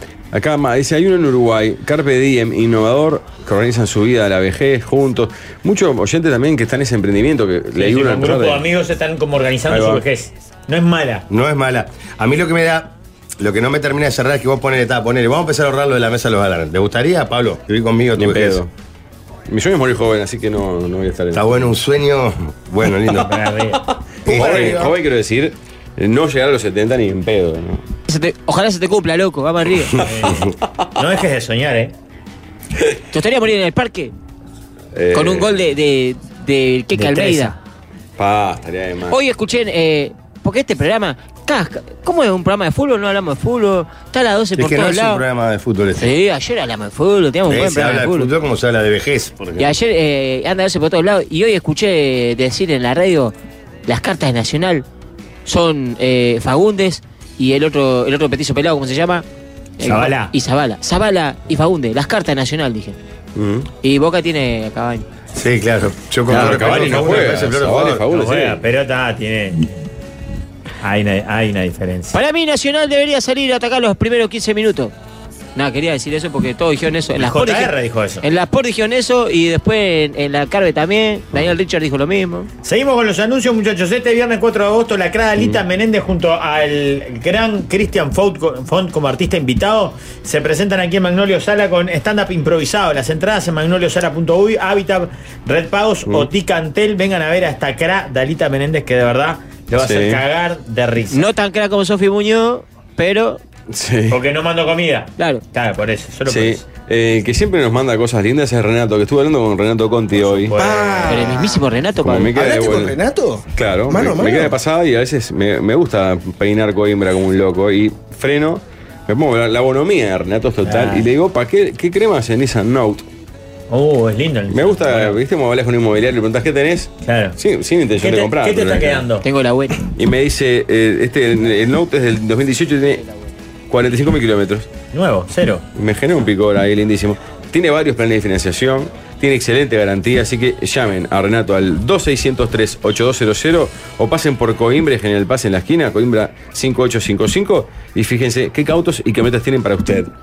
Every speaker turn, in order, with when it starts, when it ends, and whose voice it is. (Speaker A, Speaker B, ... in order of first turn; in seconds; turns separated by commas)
Speaker A: 0.3-8.7, Speaker B: 7.8-11.3, Speaker A: 9.7-10.0, Speaker C: 11.3-18.6, Speaker A: 18.2-18.7, Speaker A: 19.5-21.5, Speaker C: 21.3-23.4, Speaker B: 23.1-23.8, Speaker D: 24.2-25.0, Speaker A: 24.2-27.8, Speaker C: 24.3-24.8, Speaker E: 28.1-30.0, Speaker B: 30.0-31.9, Speaker E: 33.1-34.1, Speaker A: 34.9-35.6, Speaker E: 35.1-37.5, Speaker B: 37.0-37.6, Speaker A: 38.2-39.2, Speaker E: 39.1-45.2, Speaker C: 44.6-46.1, Speaker E: 46.0-48.3, Speaker C: 47.5-49.7, Speaker E: 49.6-53.3, Speaker E: 53.9-54.8, Speaker E: 55.5-59.2, Speaker E: 59.8-63.0, Speaker B: 59.8-60.3, Speaker A: 63.4-63.6, Speaker E: 63.8-65.0, Speaker C: 65.3-68.1, Speaker A: 66.3-68.6, Speaker B: 66.3-67.4, Speaker B: 68.1-69.7, Speaker B: 70.8-72.2, Speaker E: 72.1-74.9, Speaker E: 75.5-82.5, Speaker B: 77.1-78.2, Speaker B: 82.6-101.2, Speaker A: 99.8-100.2, Speaker E: 101.1-103.4, Speaker A: 103.7-104.2, Speaker B: 104.1-106.6, Speaker E: 105.2-105.4, Speaker A: 106.3-110.5, Speaker B: 110.3-111.3, Speaker D: 110.6-111.6, Speaker E: 111.1-112.3, Speaker A: 112.0-113.0, Speaker D: 112.2-114.5, Speaker A: 113.5-123.0, Speaker B: 120.7-120.9, Speaker E: 120.7-121.0, Speaker B: 123.7-125.2, Speaker A: 124.5-129.1, Speaker B: 127.0-127.4, Speaker B: 128.0-129.2, Speaker E: 129.2-129.8, Speaker A: 129.9-133.0, Speaker A: 133.7-134.7, Speaker B: 134.9-135.6, Speaker A: 135.8-150.1